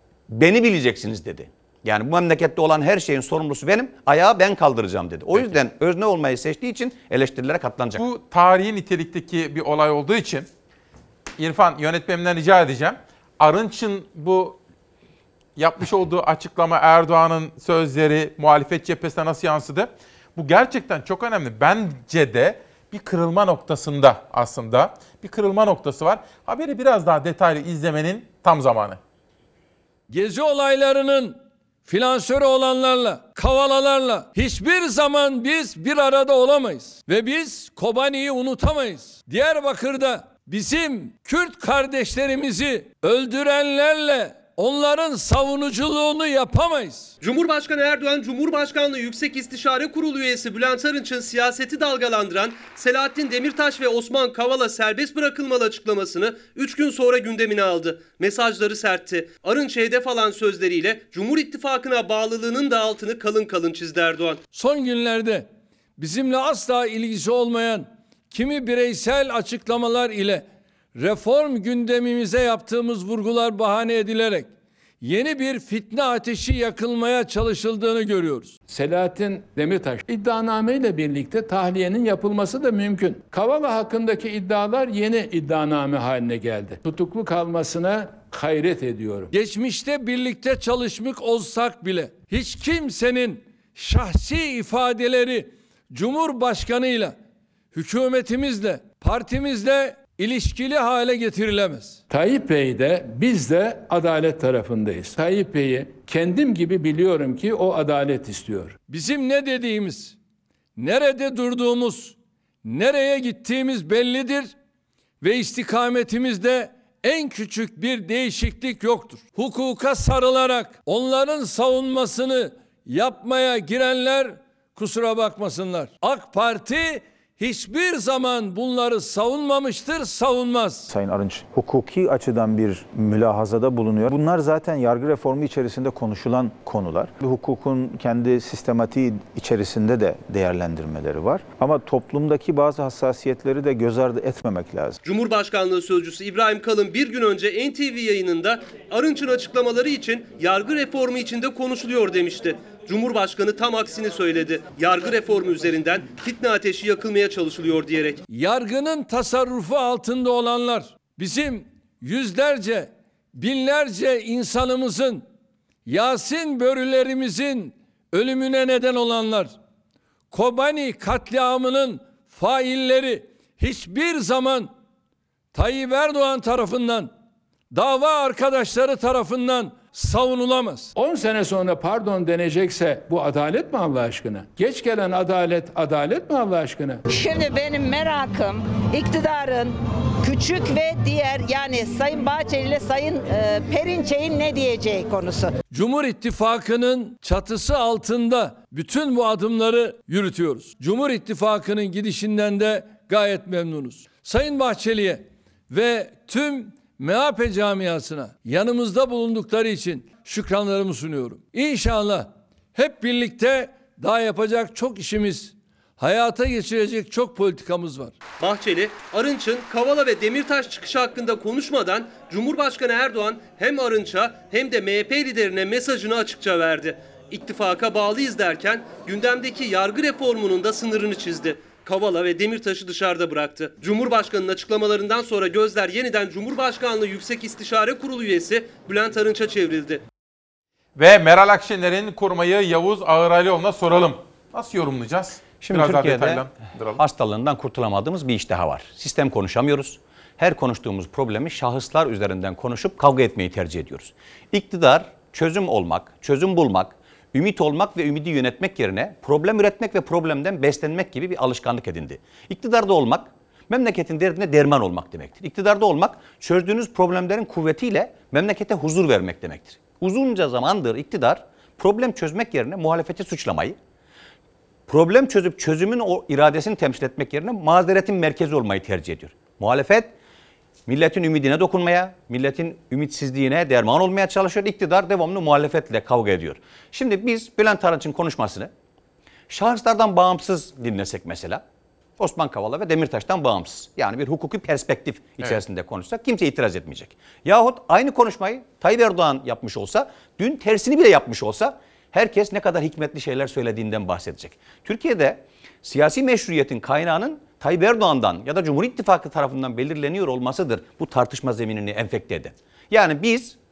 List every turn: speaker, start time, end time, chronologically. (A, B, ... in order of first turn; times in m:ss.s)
0:00.3-0:08.0 A
0:08.0-0:10.5 B
0:11.4-0:14.6 B
0:15.6-0:29.0 B
0:30.1-0:47.1 C
0:47.2-1:04.4 D
1:04.5-1:14.5 C
1:15.0-1:18.6 C
1:18.7-1:29.3 E
1:29.3-1:37.2 C
1:37.7-1:42.0 C
1:42.1-1:48.8 E
1:48.9-1:50.2 C
1:50.8-1:54.5 C
1:55.2-2:10.9 C
2:10.9-2:25.0 F
2:25.0-2:38.2 D
2:38.3-2:45.2 C
2:45.9-2:49.5 C
2:50.3-2:54.7 C
2:55.5-2:57.1 C
2:57.7-3:00.9 C
3:01.0-3:07.0 E
3:07.2-3:09.7 G
3:10.2-3:15.5 G
3:15.7-3:38.2 C
3:38.4-4:00.0 D
4:01.0-4:07.0 B
4:05.6-4:33.8 A
4:34.9-4:40.1 A
4:40.9-4:48.7 A
4:49.5-4:51.6 A
4:52.2-5:13.6 A